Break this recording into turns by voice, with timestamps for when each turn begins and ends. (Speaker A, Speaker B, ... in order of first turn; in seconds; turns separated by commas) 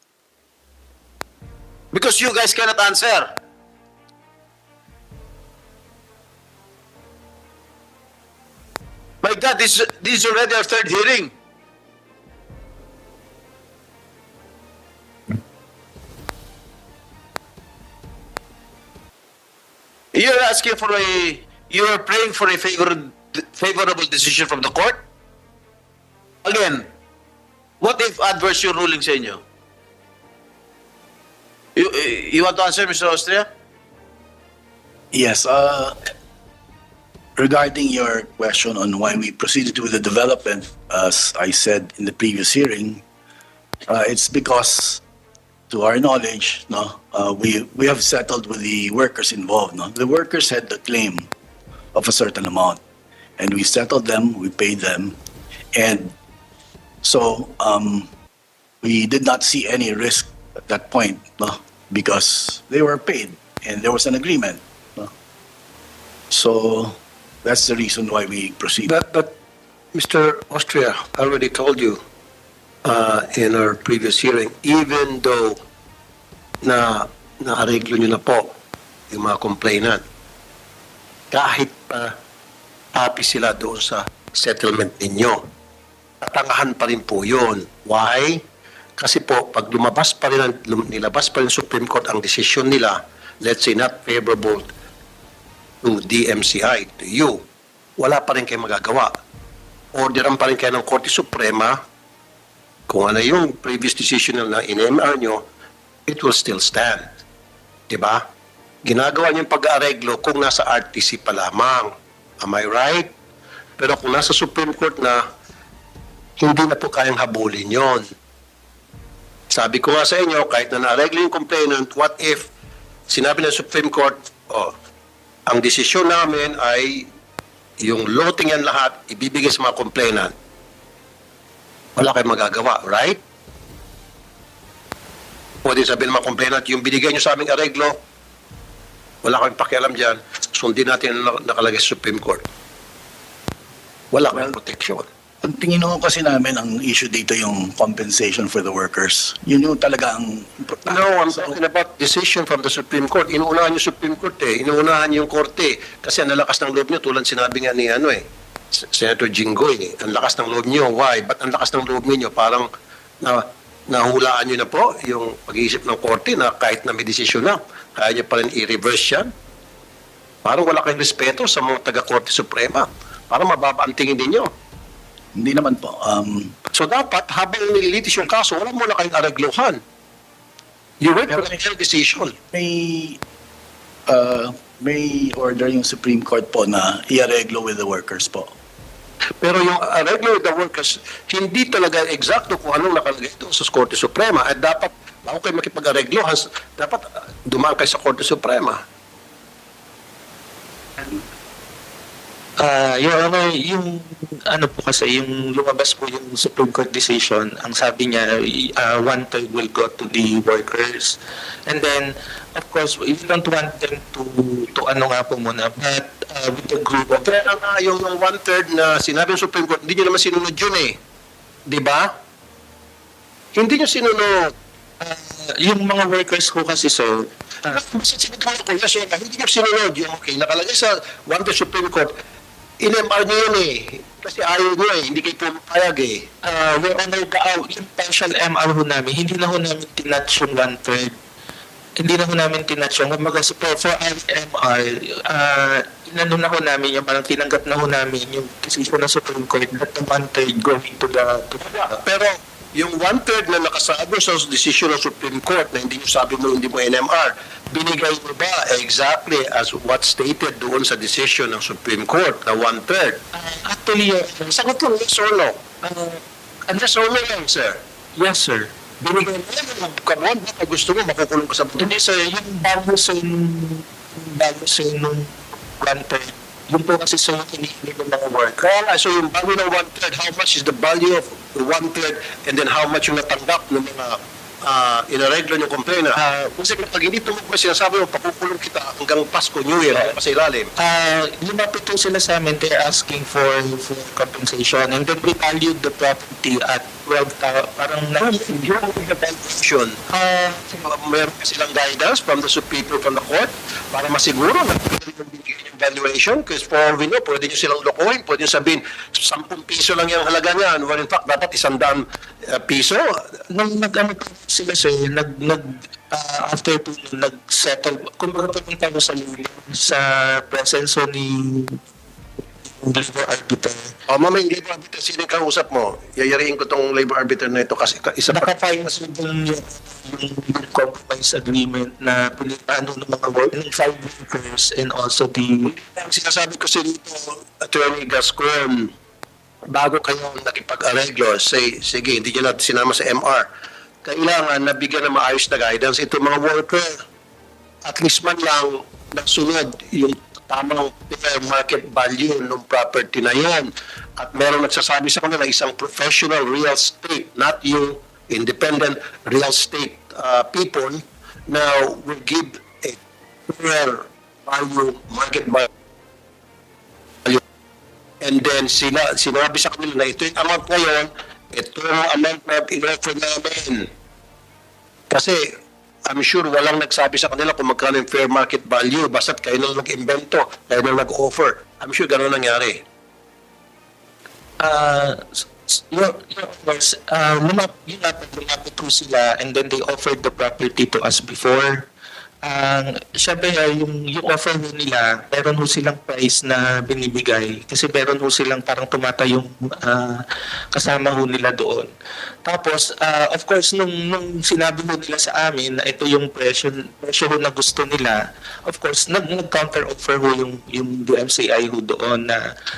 Speaker A: 1.9-3.3, Speaker A: 9.2-11.3, Speaker A: 20.1-25.0, Speaker A: 26.4-26.9, Speaker A: 27.8-29.4, Speaker A: 31.8-33.5, Speaker B: 35.1-36.0, Speaker B: 37.4-43.0, Speaker B: 43.9-45.0, Speaker B: 45.7-51.3, Speaker B: 51.9-52.8, Speaker B: 53.4-55.2, Speaker B: 55.7-56.1, Speaker B: 57.0-58.1, Speaker B: 58.8-65.1, Speaker B: 66.3-68.9, Speaker C: 68.8-69.3, Speaker C: 69.9-72.0, Speaker C: 72.8-75.6, Speaker C: 76.6-78.5, Speaker C: 79.1-80.0, Speaker C: 81.3-82.1, Speaker C: 82.9-85.4, Speaker C: 86.2-88.4, Speaker C: 89.0-94.7, Speaker C: 95.8-97.4, Speaker C: 98.0-99.1, Speaker C: 99.9-101.8, Speaker C: 102.9-105.4, Speaker C: 106.1-107.1, Speaker C: 107.9-108.2, Speaker C: 108.8-113.1, Speaker C: 113.8-115.2, Speaker C: 116.4-118.0, Speaker C: 119.5-122.5, Speaker C: 123.1-124.7, Speaker C: 125.5-127.1, Speaker C: 127.8-130.3, Speaker C: 132.0-133.2, Speaker C: 135.6-138.0, Speaker C: 139.2-142.4, Speaker C: 144.1-145.1, Speaker B: 145.4-151.6, Speaker C: 150.9-158.2, Speaker C: 158.8-162.7, Speaker C: 163.2-169.3, Speaker C: 170.4-174.5, Speaker B: 175.4-176.5, Speaker C: 176.7-179.8, Speaker C: 181.0-182.3, Speaker B: 182.5-183.2, Speaker B: 184.1-188.5, Speaker C: 189.4-198.8, Speaker D: 202.6-217.3, Speaker C: 217.2-221.0, Speaker C: 221.7-222.1, Speaker C: 223.6-224.5, Speaker D: 225.0-227.8, Speaker C: 227.7-232.1, Speaker C: 232.8-236.3, Speaker D: 236.4-241.2, Speaker D: 242.0-251.9, Speaker C: 251.8-263.2, Speaker D: 263.3-264.5, Speaker C: 264.5-265.6, Speaker D: 265.8-266.2, Speaker C: 266.7-267.8, Speaker D: 268.1-268.8, Speaker C: 269.0-271.9, Speaker D: 271.8-278.6, Speaker C: 278.6-290.7, Speaker D: 290.8-298.6, Speaker C: 298.2-313.1, Speaker D: 313.5-321.8, Speaker D: 322.7-323.9, Speaker C: 324.1-328.5, Speaker D: 328.3-335.7, Speaker C: 335.7-338.9, Speaker C: 339.7-343.5, Speaker C: 344.0-346.9, Speaker C: 347.9-365.7, Speaker C: 368.2-373.9, Speaker C: 375.1-375.4, Speaker C: 376.1-382.8, Speaker D: 384.6-391.9, Speaker D: 392.4-401.9, Speaker D: 402.4-412.4